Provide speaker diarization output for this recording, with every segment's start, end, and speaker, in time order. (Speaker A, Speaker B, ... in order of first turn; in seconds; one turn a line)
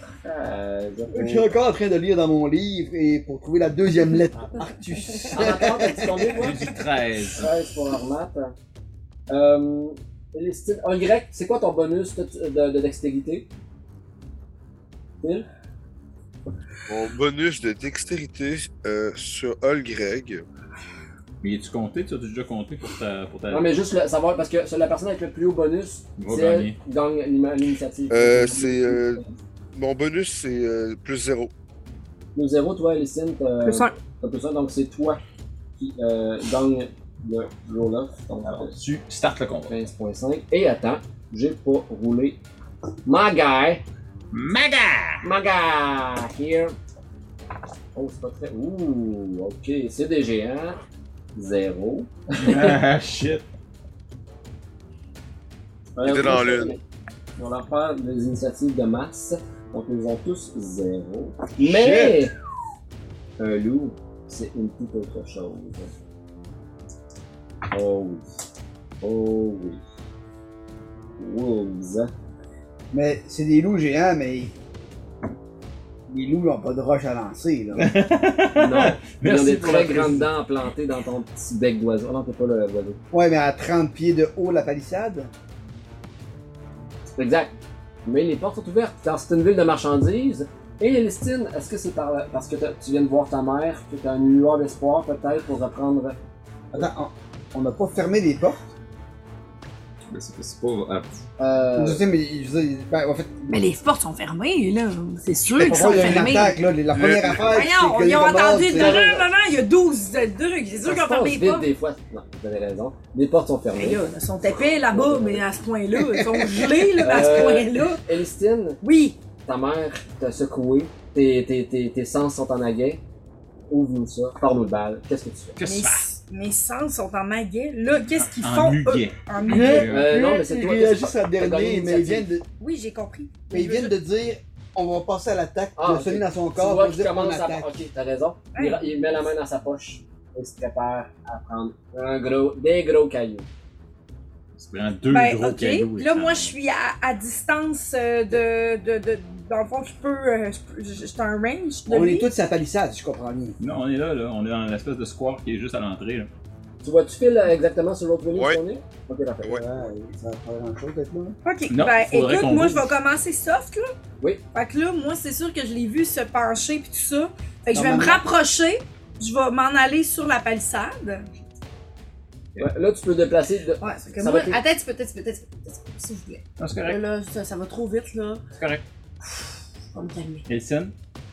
Speaker A: 0.2-1.5
Speaker B: 1.1-6.3
Speaker A: 5.3-6.7
Speaker C: 6.3-7.5
Speaker A: 7.3-8.5
Speaker A: 9.3-13.5
Speaker A: 15.2-15.5
Speaker D: 16.9-20.4
Speaker C: 21.4-23.7
Speaker A: 23.5-29.3
Speaker C: 26.2-26.8
Speaker D: 28.1-29.2
Speaker D: 29.7-31.5
Speaker A: 32.3-35.2
Speaker E: 33.6-33.9
Speaker A: 35.8-38.8
Speaker C: 38.4-39.7
Speaker A: 39.6-42.4
Speaker A: 43.0-43.8
Speaker C: 44.3-45.2
Speaker A: 45.2-46.8
Speaker A: 47.9-50.8
Speaker A: 51.3-52.8
Speaker C: 52.4-53.5
Speaker A: 56.0-56.8
Speaker D: 56.0-56.8
Speaker A: 57.4-62.3
Speaker B: 61.6-62.1
Speaker A: 63.4-65.9
Speaker A: 67.7-68.3
Speaker A: 69.0-69.8
Speaker A: 71.2-72.1
Speaker B: 72.9-74.5
Speaker B: 76.1-77.9
Speaker C: 77.7-80.3
Speaker A: 78.5-83.0
Speaker B: 83.1-85.3
Speaker A: 87.2-87.5
Speaker A: 88.0-96.2
Speaker B: 96.7-98.6
Speaker C: 100.0-101.2
Speaker A: 101.4-102.0
Speaker B: 101.8-103.5
Speaker E: 103.5-106.6
Speaker B: 105.5-109.0
Speaker D: 106.9-107.5
Speaker E: 107.4-111.7
Speaker A: 108.7-109.3
Speaker A: 110.8-115.6
Speaker E: 113.7-118.0
Speaker B: 115.9-116.9
Speaker A: 117.0-118.8
Speaker E: 118.8-119.2
Speaker A: 119.4-123.0
Speaker A: 123.7-125.6
Speaker C: 125.6-126.1
Speaker E: 125.6-129.9
Speaker C: 128.1-130.1
Speaker B: 129.4-132.4
Speaker A: 129.9-132.3
Speaker E: 132.6-133.9
Speaker B: 133.5-137.7
Speaker A: 135.8-143.5
Speaker E: 138.5-139.2
Speaker C: 144.6-146.5
Speaker E: 145.1-152.3
Speaker B: 151.8-153.6
Speaker C: 153.6-156.3
Speaker A: 156.8-159.6
Speaker D: 158.3-158.6
Speaker B: 159.5-161.4
Speaker E: 161.4-163.9
Speaker C: 161.7-162.9
Speaker E: 164.5-171.2
Speaker B: 167.7-168.3
Speaker A: 172.6-174.6
Speaker E: 173.8-178.4
Speaker C: 176.6-177.0
Speaker C: 178.5-178.8
Speaker E: 179.9-180.5
Speaker C: 180.5-180.9